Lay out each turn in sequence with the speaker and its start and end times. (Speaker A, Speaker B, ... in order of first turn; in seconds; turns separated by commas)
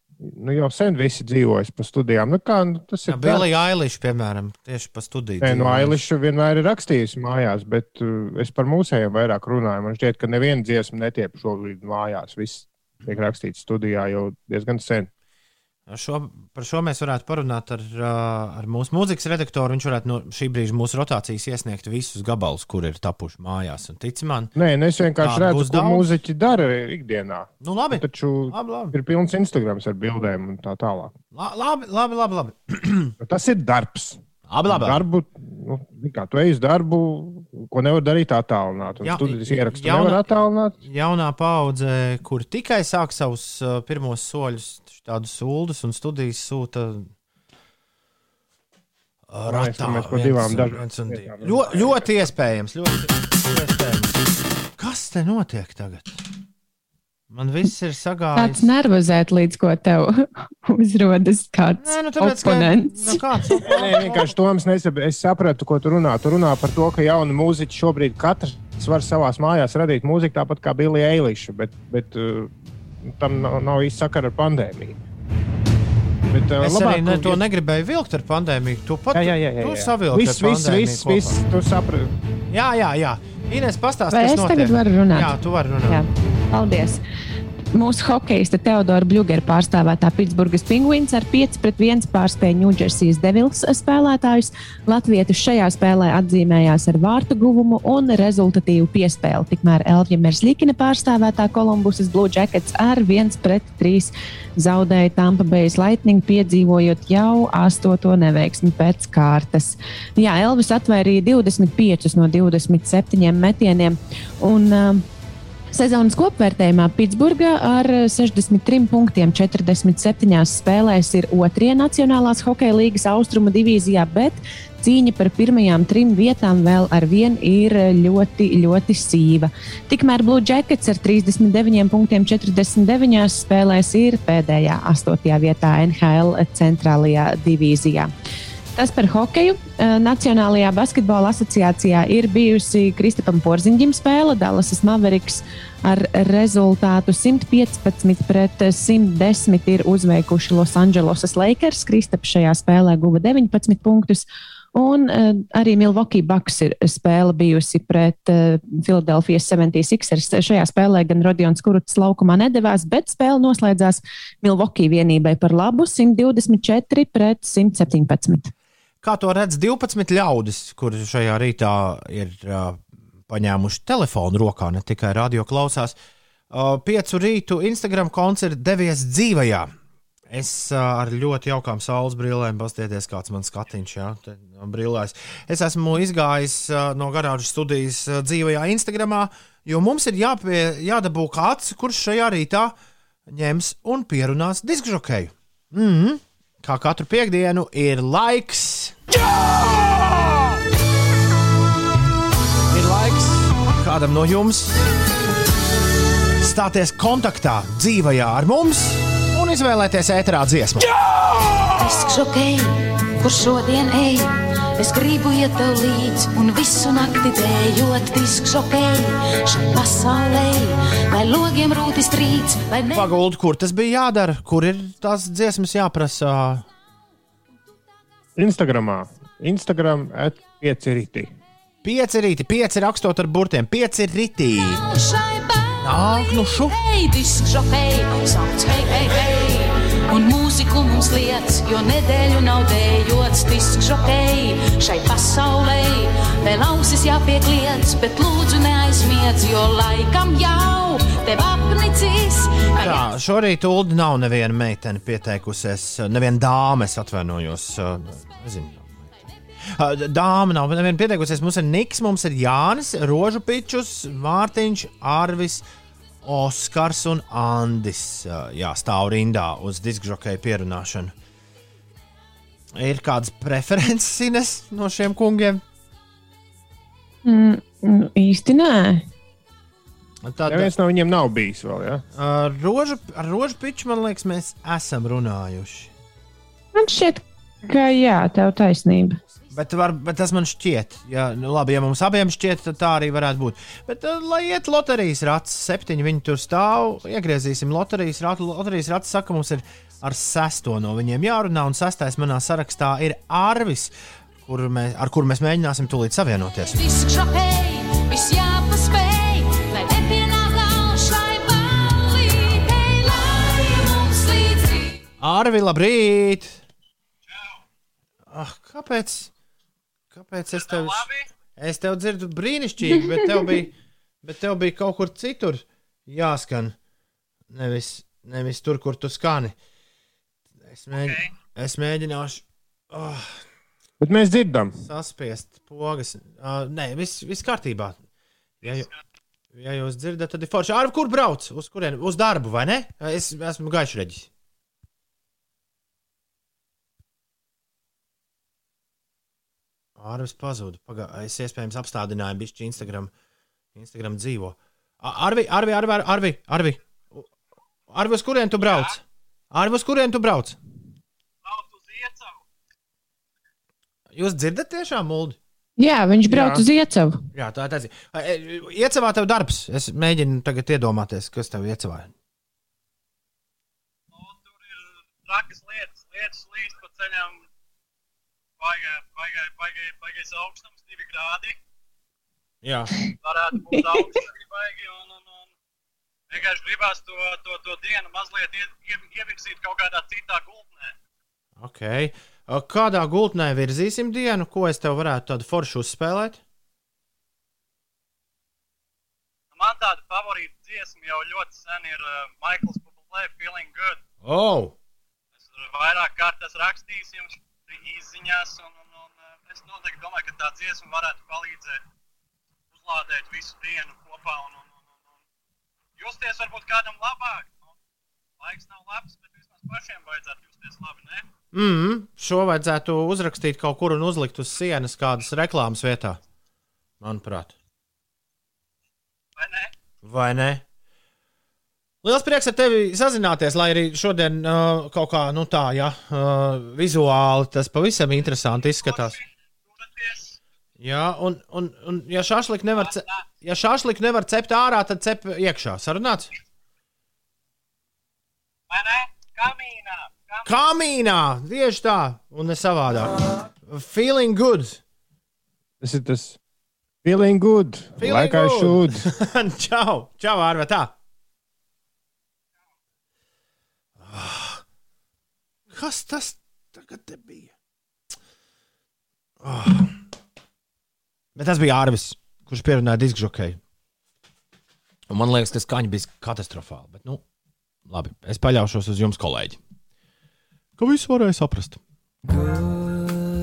Speaker A: 0.2-3.5, Speaker B: 3.1-6.0, Speaker A: 5.4-15.1, Speaker B: 15.9-24.5, Speaker A: 24.6-31.1, Speaker B: 25.2-26.1, Speaker B: 27.6-28.9, Speaker B: 31.3-33.1, Speaker A: 33.2-40.8, Speaker B: 34.5-35.0, Speaker B: 39.0-40.3, Speaker B: 40.9-47.1, Speaker B: 49.3-54.2, Speaker A: 49.5-52.0, Speaker B: 54.8-56.2, Speaker B: 57.3-58.7, Speaker C: 58.4-63.2, Speaker B: 61.8-64.3, Speaker A: 63.7-75.0, Speaker A: 76.3-77.4, Speaker B: 76.6-81.4, Speaker A: 79.1-82.1, Speaker B: 82.5-86.0, Speaker C: 84.1-85.3, Speaker C: 85.9-87.0, Speaker C: 87.7-115.0, Speaker C: 115.7-138.1, Speaker C: 138.8-168.5, Speaker B: 169.0-176.0, Speaker B: 176.5-179.7, Speaker B: 180.3-192.7, Speaker B: 193.3-200.5, Speaker B: 202.7-204.8, Speaker B: 206.4-211.0, Speaker D: 211.8-223.2, Speaker B: 222.9-226.7, Speaker A: 228.4-231.3, Speaker B: 231.8-234.8, Speaker D: 234.8-235.8, Speaker B: 235.8-236.8, Speaker D: 236.7-253.1, Speaker B: 252.8-259.1, Speaker B: 259.7-265.6, Speaker B: 266.2-271.1, Speaker B: 272.7-275.6, Speaker C: 277.2-279.1, Speaker B: 280.2-280.7, Speaker A: 280.5-282.0, Speaker B: 282.1-285.9, Speaker C: 286.8-289.2, Speaker B: 289.5-303.9, Speaker B: 304.4-306.8, Speaker D: 306.7-315.0, Speaker B: 315.2-316.6, Speaker B: 318.3-319.3, Speaker B: 320.1-323.7, Speaker E: 320.5-321.3, Speaker B: 324.2-326.8, Speaker B: 327.5-329.5, Speaker B: 330.7-333.4, Speaker E: 331.0-331.3, Speaker A: 334.0-334.8, Speaker B: 334.8-338.0, Speaker B: 338.6-338.9, Speaker B: 339.5-344.3, Speaker B: 350.0-353.1, Speaker B: 353.8-357.3, Speaker B: 357.9-360.6, Speaker E: 358.6-358.9, Speaker E: 361.4-362.4, Speaker B: 364.1-365.4, Speaker C: 365.8-367.2, Speaker A: 366.3-366.6, Speaker B: 367.3-372.1, Speaker E: 374.1-377.4, Speaker E: 378.6-381.6, Speaker B: 382.6-382.9, Speaker E: 383.2-385.5, Speaker C: 383.7-384.2, Speaker E: 386.3-390.9, Speaker B: 391.6-396.4, Speaker E: 399.5-404.0, Speaker B: 404.2-404.7, Speaker E: 405.4-411.8, Speaker E: 412.7-415.0, Speaker E: 416.0-417.6, Speaker E: 418.4-421.3, Speaker B: 421.5-426.2, Speaker B: 427.0-427.5, Speaker E: 429.4-429.7, Speaker B: 430.0-430.6, Speaker B: 432.0-439.2, Speaker E: 438.8-440.4, Speaker B: 440.8-446.3, Speaker E: 442.8-443.2, Speaker E: 448.7-450.5, Speaker B: 450.4-454.8, Speaker A: 455.8-456.4, Speaker A: 457.0-459.0, Speaker B: 458.0-460.9, Speaker B: 464.0-464.6, Speaker B: 465.7-467.5, Speaker B: 469.4-469.9, Speaker B: 471.4-473.6, Speaker B: 475.1-477.2, Speaker B: 477.9-479.6, Speaker B: 480.8-481.8